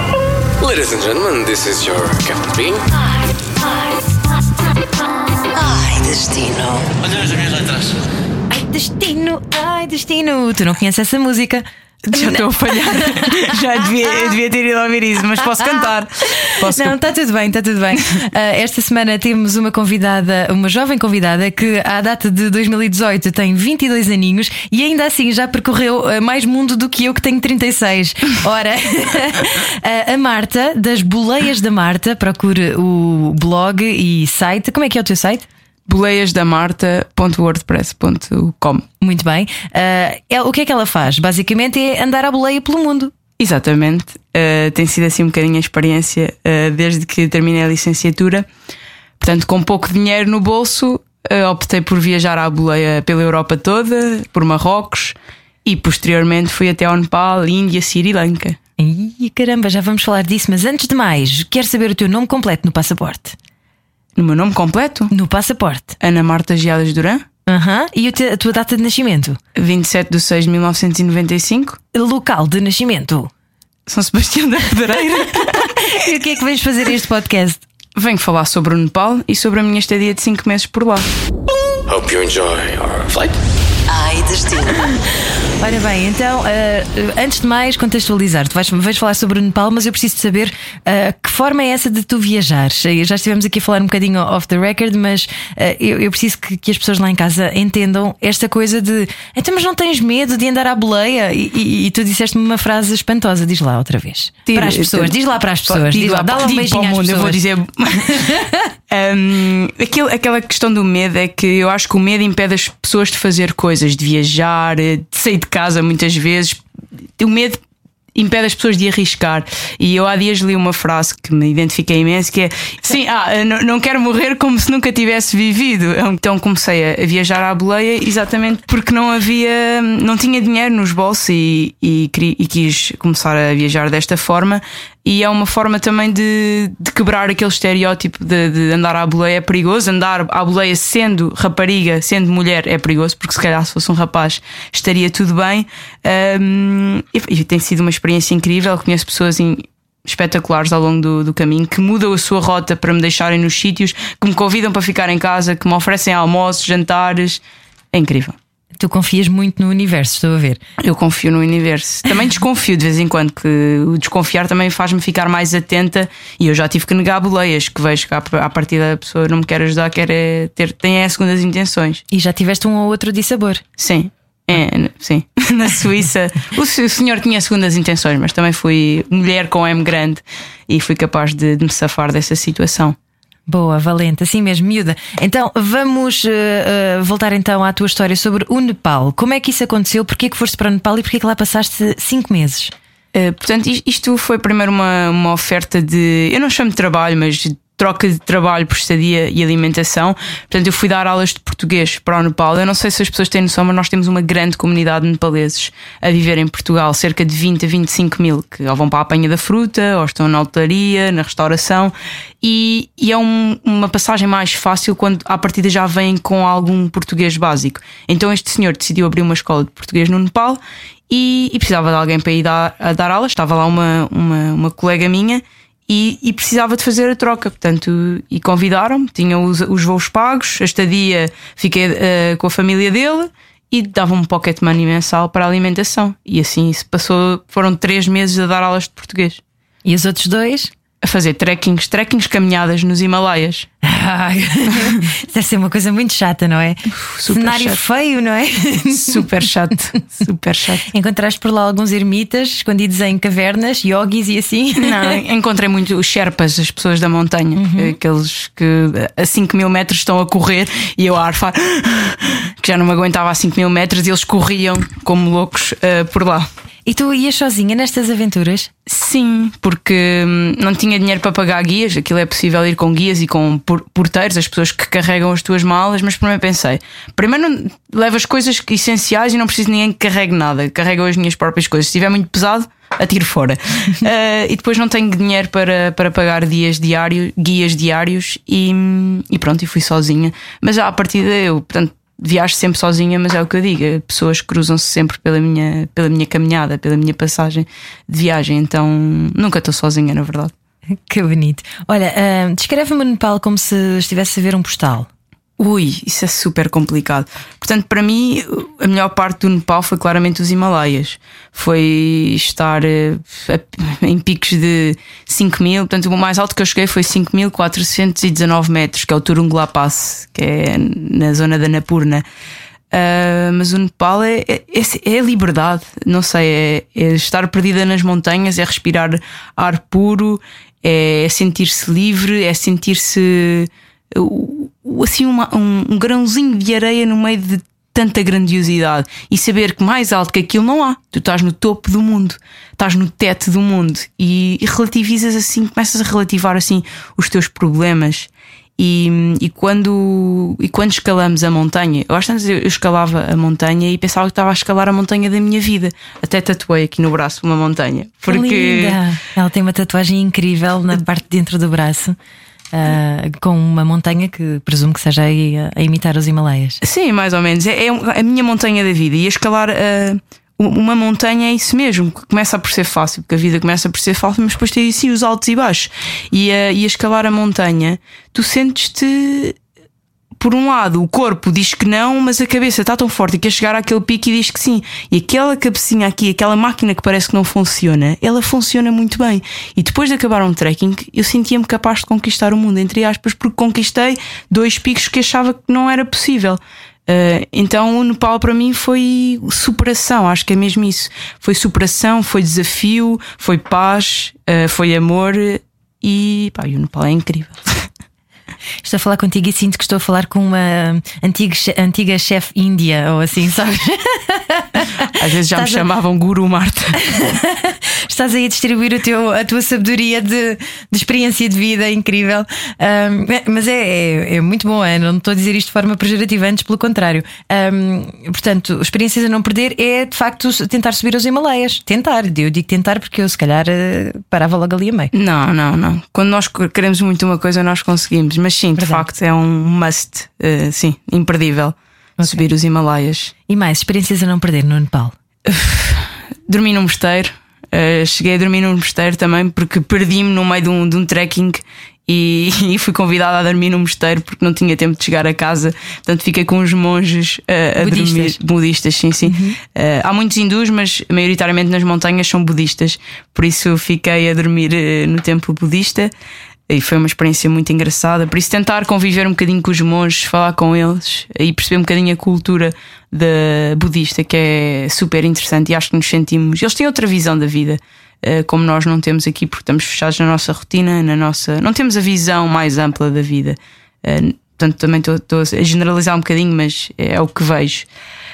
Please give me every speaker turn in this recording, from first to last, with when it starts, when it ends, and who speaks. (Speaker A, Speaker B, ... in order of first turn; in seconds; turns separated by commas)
Speaker A: 0.6-2.8, Speaker B: 5.7-6.8, Speaker B: 8.5-13.5, Speaker C: 12.0-16.9, Speaker B: 16.3-35.5, Speaker C: 35.9-38.9, Speaker B: 39.0-43.1, Speaker C: 43.4-48.5, Speaker C: 49.2-58.6, Speaker B: 58.8-63.4, Speaker C: 64.2-65.1, Speaker B: 65.1-66.0, Speaker C: 66.0-67.2, Speaker B: 67.5-69.4, Speaker C: 69.5-71.8, Speaker B: 71.9-73.3, Speaker C: 73.9-75.9, Speaker B: 75.5-77.6, Speaker C: 77.9-81.1, Speaker A: 81.9-83.3, Speaker B: 83.9-85.0, Speaker B: 85.6-107.4, Speaker C: 104.5-105.2, Speaker C: 105.7-108.4, Speaker B: 108.0-108.7, Speaker C: 108.9-116.6, Speaker C: 117.2-117.6, Speaker C: 118.1-158.4, Speaker B: 158.8-160.6, Speaker C: 160.8-172.0, Speaker B: 172.1-173.6, Speaker C: 173.8-182.9, Speaker B: 183.5-192.7, Speaker C: 193.1-239.4, Speaker B: 239.8-240.7, Speaker C: 241.0-243.7, Speaker B: 243.8-249.3, Speaker C: 244.7-245.0, Speaker C: 246.9-247.8, Speaker C: 248.9-250.8, Speaker B: 250.9-255.2, Speaker C: 254.8-266.5, Speaker B: 257.6-258.0, Speaker B: 266.9-268.7, Speaker C: 268.9-300.5, Speaker B: 301.1-305.1, Speaker C: 305.6-322.2, Speaker C: 322.9-359.0, Speaker B: 358.3-362.2, Speaker B: 362.7-366.8, Speaker C: 366.8-379.6, Speaker C: 380.4-407.9, Speaker B: 408.8-415.8, Speaker C: 415.0-416.9, Speaker B: 417.0-435.1, Speaker C: 435.1-443.3, Speaker B: 438.8-439.0, Speaker B: 442.2-442.4, Speaker B: 443.5-445.1, Speaker C: 445.4-466.1, Speaker B: 457.8-458.4, Speaker B: 459.2-459.6, Speaker C: 466.7-487.9